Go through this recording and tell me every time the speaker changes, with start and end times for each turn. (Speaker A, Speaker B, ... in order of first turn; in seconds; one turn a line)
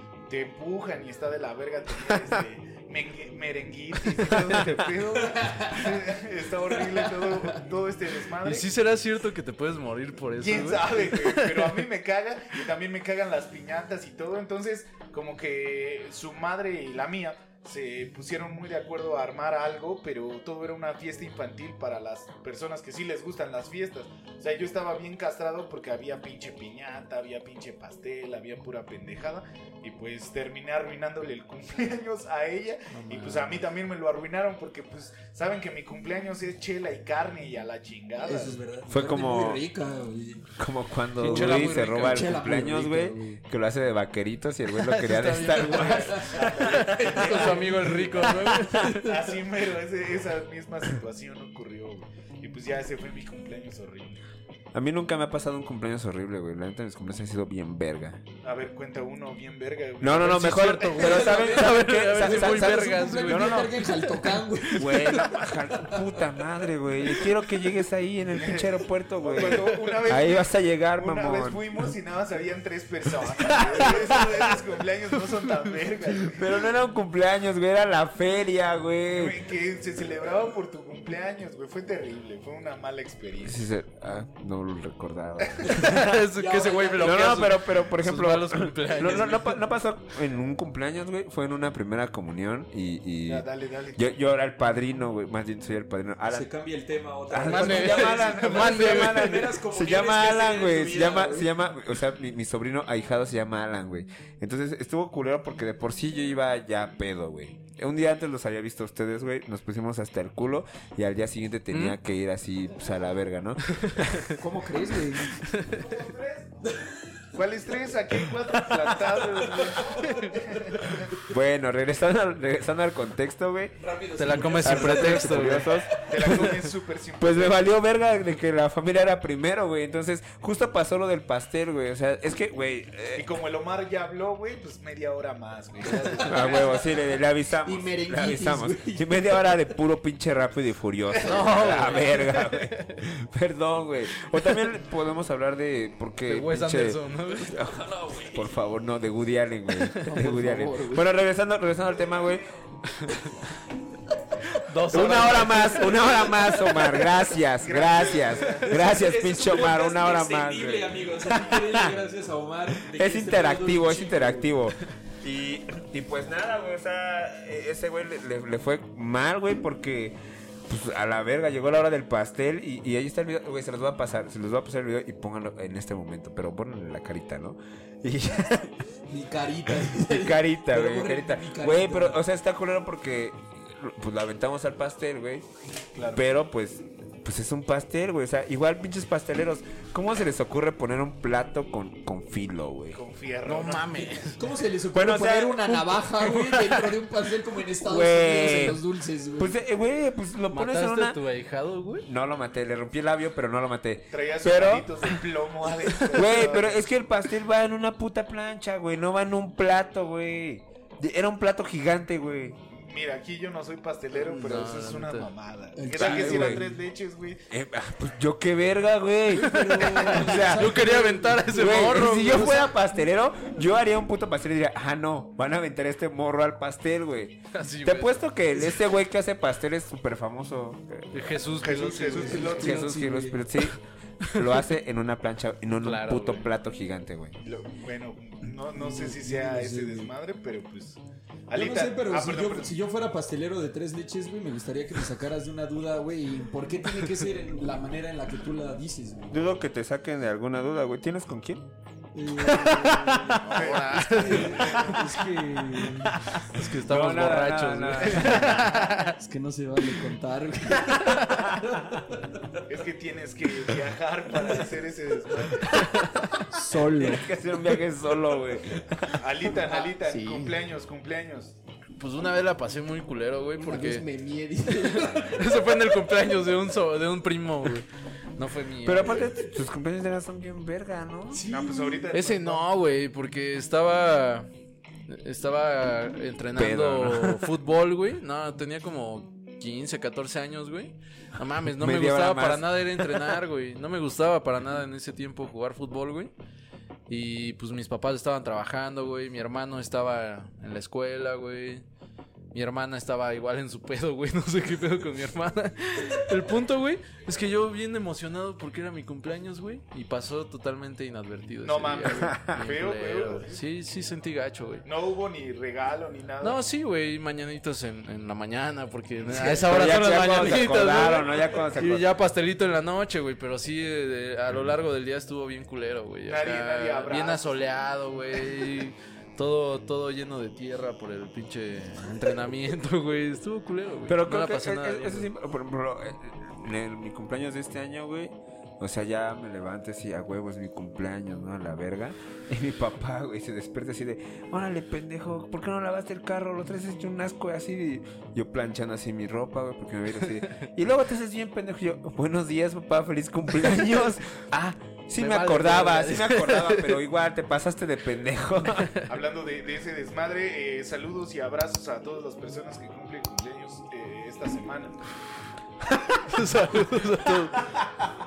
Speaker A: 0.3-8.7
Speaker B: 5.3-6.0
Speaker B: 6.8-7.6
Speaker C: 8.4-11.9
Speaker A: 10.4-38.6
Speaker C: 32.9-33.6
Speaker B: 38.2-40.6
Speaker D: 38.9-39.6
Speaker D: 40.6-46.9
Speaker C: 41.2-42.4
Speaker B: 41.2-43.4
Speaker C: 44.7-49.4
Speaker B: 45.5-48.0
Speaker A: 46.3-54.2
Speaker D: 48.2-48.9
Speaker D: 54.7-58.2
Speaker A: 58.4-61.2
Speaker D: 60.0-63.8
Speaker C: 60.2-63.7
Speaker B: 61.0-66.2
Speaker D: 64.8-71.6
Speaker A: 68.3-76.6
Speaker D: 73.4-74.6
Speaker D: 76.2-79.4
Speaker A: 79.1-83.7
Speaker D: 83.4-86.2
Speaker A: 85.4-85.8
Speaker C: 85.7-89.6
Speaker B: 86.1-87.5
Speaker D: 87.0-96.5
Speaker A: 93.2-94.1
Speaker B: 96.3-101.5
Speaker D: 97.3-114.3
Speaker C: 97.3-99.5
Speaker C: 111.7-112.0
Speaker C: 113.7-114.3
Speaker B: 114.3-115.5
Speaker C: 115.3-115.9
Speaker A: 115.6-116.5
Speaker A: 117.3-121.1
Speaker B: 118.7-121.0
Speaker C: 120.0-120.4
Speaker D: 121.1-123.8
Speaker B: 123.8-126.1
Speaker C: 124.2-126.4
Speaker D: 124.3-133.3
Speaker A: 125.9-127.6
Speaker A: 133.1-137.0
Speaker D: 136.1-152.5
Speaker B: 136.2-136.5
Speaker B: 137.6-139.6
Speaker A: 141.1-141.8
Speaker C: 141.2-142.9
Speaker C: 146.2-147.6
Speaker B: 147.5-148.6
Speaker B: 150.0-151.1
Speaker C: 154.5-156.7
Speaker D: 154.9-161.9
Speaker B: 155.2-156.9
Speaker A: 157.6-158.9
Speaker B: 158.6-164.5
Speaker D: 162.8-178.7
Speaker B: 179.1-182.2
Speaker D: 179.8-185.4
Speaker A: 185.9-186.2
Speaker D: 186.1-193.0
Speaker A: 192.9-194.1
Speaker C: 193.4-194.4
Speaker B: 194.3-199.5
Speaker D: 194.9-196.6
Speaker D: 197.8-198.8
Speaker D: 199.4-201.2
Speaker C: 200.5-202.1
Speaker D: 202.1-205.2
Speaker A: 204.1-206.8
Speaker D: 206.1-212.6
Speaker A: 212.7-217.4
Speaker C: 214.1-215.3
Speaker B: 215.7-216.8
Speaker D: 215.9-216.6
Speaker D: 217.5-220.7
Speaker B: 219.3-222.7
Speaker C: 219.4-222.7
Speaker D: 221.5-231.3
Speaker C: 227.5-228.2
Speaker C: 231.1-232.7
Speaker A: 231.6-232.8
Speaker B: 232.1-233.4
Speaker D: 232.5-233.8
Speaker C: 234.3-234.6
Speaker D: 234.3-237.4
Speaker C: 235.8-236.4
Speaker A: 237.4-242.8
Speaker B: 238.7-240.1
Speaker B: 241.5-249.5
Speaker D: 249.3-251.7
Speaker B: 252.1-256.2
Speaker D: 252.3-253.4
Speaker C: 253.4-254.9
Speaker A: 253.4-255.2
Speaker D: 255.8-258.8
Speaker C: 256.4-259.1
Speaker B: 259.1-262.6
Speaker D: 260.9-262.0
Speaker A: 262.7-266.0
Speaker C: 265.7-266.2
Speaker B: 266.3-267.3
Speaker D: 266.8-269.3
Speaker A: 269.2-271.6
Speaker B: 269.5-270.6
Speaker C: 272.0-274.1
Speaker B: 273.6-275.6
Speaker C: 274.7-279.3
Speaker D: 278.8-281.4
Speaker B: 281.3-282.1
Speaker A: 281.4-282.6
Speaker C: 282.1-284.5
Speaker C: 285.1-296.3
Speaker D: 286.5-287.5
Speaker D: 291.8-293.4
Speaker C: 297.1-301.8
Speaker C: 302.5-314.8
Speaker A: 311.6-313.6
Speaker D: 312.1-312.6
Speaker A: 314.9-316.6
Speaker C: 316.4-335.3
Speaker D: 319.4-322.1
Speaker A: 326.3-327.6
Speaker D: 334.1-358.9
Speaker C: 355.1-357.0
Speaker C: 358.7-359.1
Speaker A: 359.1-365.0
Speaker C: 366.1-367.6